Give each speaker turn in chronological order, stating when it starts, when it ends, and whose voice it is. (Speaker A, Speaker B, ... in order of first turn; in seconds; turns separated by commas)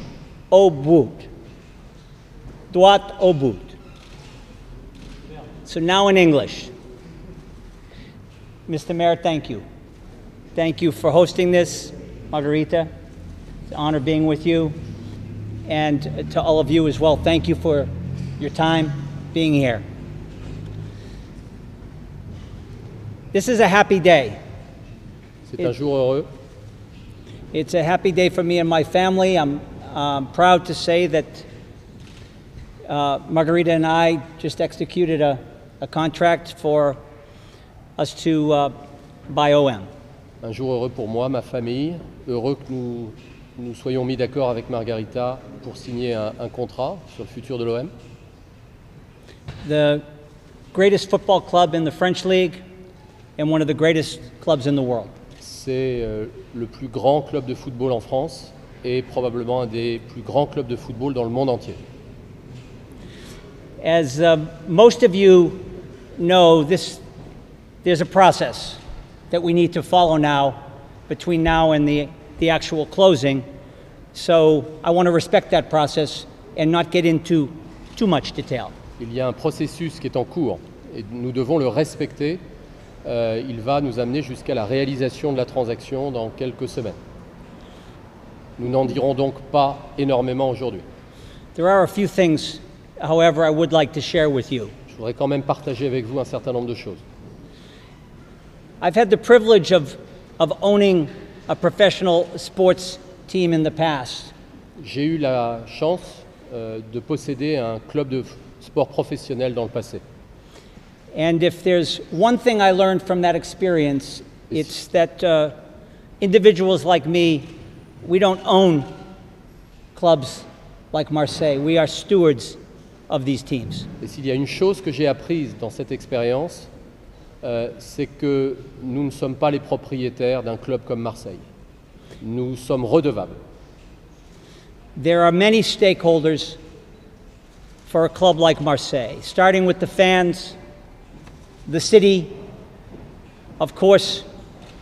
Speaker A: 0.5-1.3, Speaker A: 2.7-3.8, Speaker A: 5.6-6.7, Speaker A: 8.7-9.6, Speaker A: 10.6-12.9, Speaker A: 13.7-14.8, Speaker A: 15.7-19.8, Speaker A: 23.3-24.4, Speaker B: 25.5-26.3, Speaker A: 27.5-31.5, Speaker A: 32.9-37.0, Speaker A: 38.0-38.7, Speaker A: 39.3-39.9, Speaker B: 40.4-47.9, Speaker A: 49.6-50.0, Speaker A: 50.7-52.6, Speaker A: 53.4-55.1, Speaker B: 55.4-61.8, Speaker A: 63.8-65.6, Speaker A: 66.2-67.0, Speaker A: 67.8-73.4, Speaker A: 74.1-78.7, Speaker B: 79.0-82.4, Speaker B: 83.0-87.0, Speaker B: 88.6-90.8, Speaker A: 91.5-94.7, Speaker B: 94.9-97.0, Speaker A: 98.8-104.3, Speaker B: 104.8-110.0, Speaker A: 111.1-115.5, Speaker A: 116.2-117.5, Speaker A: 118.0-118.9, Speaker A: 119.9-122.6, Speaker A: 123.1-123.9, Speaker B: 124.0-126.7, Speaker B: 127.4-131.4, Speaker B: 132.2-133.4, Speaker A: 135.0-136.6, Speaker A: 137.8-140.6, Speaker A: 141.7-142.3, Speaker A: 143.6-144.2